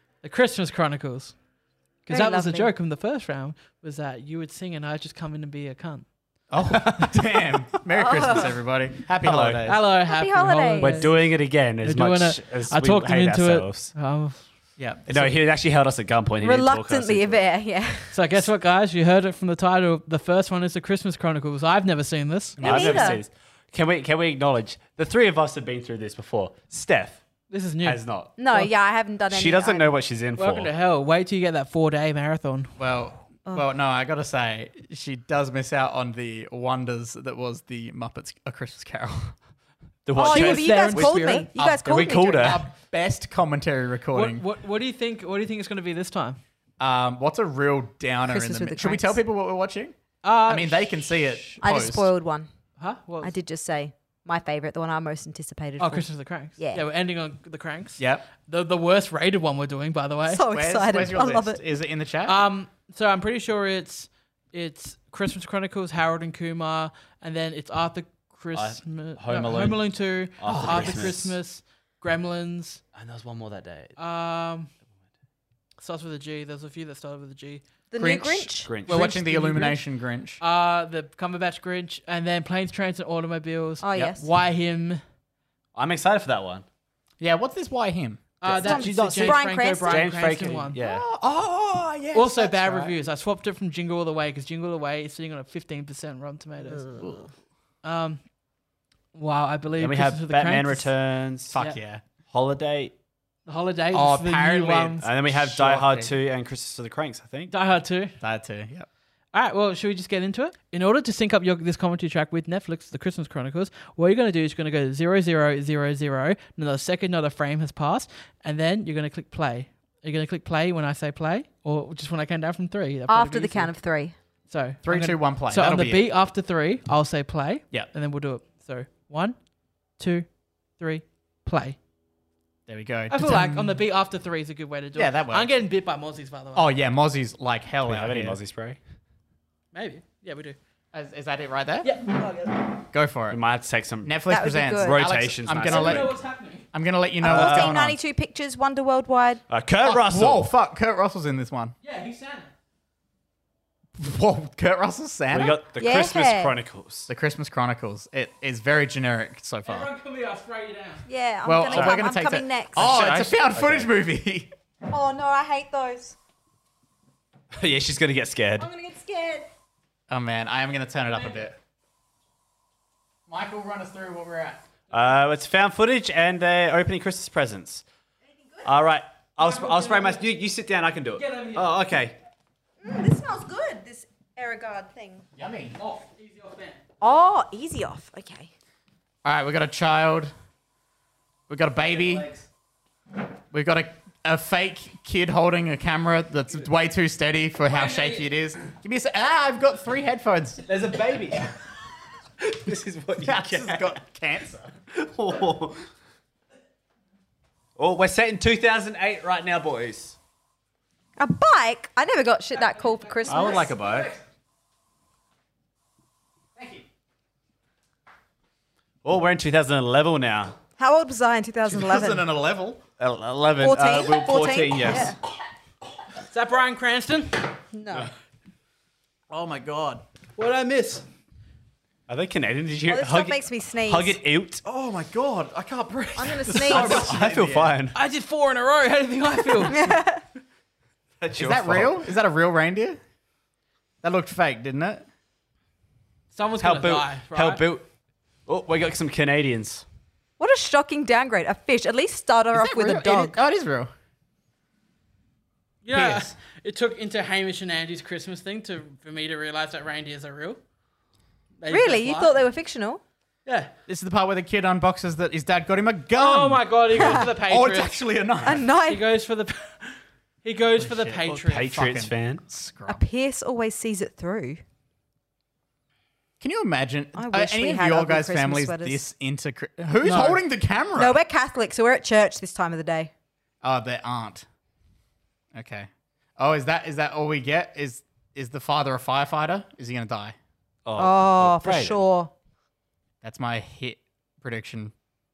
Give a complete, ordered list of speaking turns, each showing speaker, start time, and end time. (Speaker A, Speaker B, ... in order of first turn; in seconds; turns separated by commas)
Speaker A: 0.2-1.4, Speaker A: 2.1-6.1, Speaker B: 2.1-2.7, Speaker C: 6.5-9.8, Speaker A: 6.7-7.1, Speaker B: 8.0-8.5, Speaker D: 9.2-9.6, Speaker A: 9.7-14.4, Speaker B: 10.1-11.1, Speaker D: 10.8-13.9, Speaker C: 14.8-15.3, Speaker D: 15.1-17.4, Speaker B: 16.4-18.2, Speaker A: 18.1-22.6, Speaker D: 22.6-27.2, Speaker C: 22.6-23.1, Speaker B: 22.6-23.2, Speaker A: 27.5-28.0, Speaker D: 27.8-28.3, Speaker B: 28.4-29.9, Speaker D: 29.3-30.7, Speaker A: 30.4-32.8, Speaker C: 32.8-39.4, Speaker D: 40.1-42.6, Speaker A: 40.2-41.5, Speaker B: 40.2-42.6, Speaker C: 41.5-44.4, Speaker A: 44.1-46.4, Speaker C: 46.8-52.1, Speaker B: 48.3-49.2, Speaker A: 50.2-51.0, Speaker B: 51.6-52.5, Speaker A: 52.8-53.3, Speaker B: 53.2-56.1, Speaker A: 55.8-60.4, Speaker B: 56.6-56.8, Speaker C: 58.0-58.3, Speaker B: 60.3-61.6, Speaker C: 60.5-62.4, Speaker A: 62.3-72.8, Speaker D: 68.5-69.8, Speaker D: 70.4-71.3, Speaker C: 70.4-71.3, Speaker D: 72.9-74.0, Speaker A: 74.0-74.7, Speaker A: 75.8-77.6, Speaker B: 77.9-78.8, Speaker C: 78.0-80.4, Speaker D: 78.7-79.0, Speaker A: 78.9-79.8, Speaker A: 80.4-85.0, Speaker B: 83.8-84.3, Speaker D: 85.8-86.7, Speaker C: 87.2-88.3, Speaker A: 88.4-90.8, Speaker D: 88.4-91.0, Speaker B: 88.6-90.1, Speaker C: 90.8-93.0, Speaker A: 92.1-96.9, Speaker A: 97.8-98.2, Speaker A: 99.1-100.9, Speaker D: 99.8-101.5, Speaker C: 101.5-102.0, Speaker D: 102.3-102.9, Speaker A: 103.5-105.0, Speaker C: 103.9-106.1, Speaker D: 105.0-107.5, Speaker A: 107.5-108.2, Speaker C: 108.2-108.9, Speaker A: 109.3-123.7, Speaker B: 123.1-124.2, Speaker A: 124.5-129.4, Speaker C: 124.8-126.0, Speaker A: 130.0-130.3, Speaker A: 130.8-131.8, Speaker C: 132.7-133.8, Speaker A: 133.1-136.7, Speaker C: 134.9-135.5, Speaker C: 136.6-138.4, Speaker D: 137.9-138.8, Speaker A: 139.7-140.6, Speaker C: 140.9-141.9, Speaker A: 141.8-142.8, Speaker C: 142.9-143.4, Speaker D: 143.3-144.2, Speaker C: 144.1-146.2, Speaker B: 144.3-145.0, Speaker D: 144.8-146.2, Speaker A: 145.6-146.7, Speaker C: 146.7-148.0, Speaker B: 147.2-149.4, Speaker D: 147.3-147.8, Speaker D: 149.5-150.5, Speaker C: 149.8-151.8, Speaker A: 151.8-152.5, Speaker C: 154.0-155.6, Speaker D: 155.3-157.1, Speaker B: 155.8-156.6, Speaker C: 157.1-159.9, Speaker A: 159.7-161.0, Speaker B: 161.1-163.1, Speaker C: 161.4-164.5, Speaker D: 161.7-162.0, Speaker D: 162.8-163.9, Speaker B: 164.8-166.2, Speaker D: 167.5-168.7, Speaker B: 168.6-169.5, Speaker C: 170.1-171.6, Speaker C: 173.3-174.6, Speaker D: 174.9-177.8, Speaker D: 178.6-182.2, Speaker A: 179.4-180.4, Speaker A: 181.2-181.7, Speaker B: 182.8-185.2, Speaker C: 185.4-185.8, Speaker A: 185.8-186.8, Speaker B: 187.0-188.5, Speaker C: 189.2-190.3, Speaker C: 191.5-192.3, Speaker D: 191.8-192.4, Speaker C: 193.5-200.6, Speaker D: 200.7-201.6, Speaker D: 202.4-204.0, Speaker C: 203.2-204.7, Speaker D: 204.9-205.8, Speaker D: 207.8-210.2, Speaker B: 211.2-213.7, Speaker A: 213.2-213.7, Speaker D: 213.3-214.2, Speaker C: 213.6-214.1, Speaker D: 219.0-220.6, Speaker B: 220.8-222.2, Speaker C: 221.7-222.8, Speaker D: 223.0-225.2, Speaker B: 223.6-225.2, Speaker A: 226.2-227.5, Speaker B: 227.7-228.1, Speaker C: 229.3-230.0, Speaker A: 230.4-231.1, Speaker D: 232.1-234.6, Speaker B: 232.9-234.2, Speaker C: 234.7-237.8, Speaker B: 236.2-237.1, Speaker D: 236.5-238.0, Speaker A: 236.6-237.2, Speaker A: 237.9-239.8, Speaker B: 239.7-240.2, Speaker D: 241.2-242.0, Speaker C: 241.4-243.0, Speaker C: 244.0-245.1, Speaker A: 246.3-247.6, Speaker D: 246.6-247.9, Speaker D: 248.5-249.8, Speaker B: 250.4-253.4, Speaker C: 252.5-253.9, Speaker A: 255.8-260.6, Speaker C: 255.9-256.4, Speaker A: 261.6-262.3, Speaker B: 261.7-263.0, Speaker A: 263.4-263.7, Speaker C: 263.9-268.7, Speaker A: 266.1-268.0, Speaker B: 268.4-269.0, Speaker A: 268.8-271.7, Speaker C: 270.8-273.0, Speaker D: 271.5-272.4, Speaker B: 272.9-274.6, Speaker C: 276.4-281.2, Speaker B: 277.2-279.1, Speaker A: 280.0-280.4, Speaker B: 281.0-283.1, Speaker C: 283.6-284.5, Speaker C: 285.5-290.4, Speaker D: 290.9-292.0, Speaker B: 291.0-292.3, Speaker C: 293.2-294.9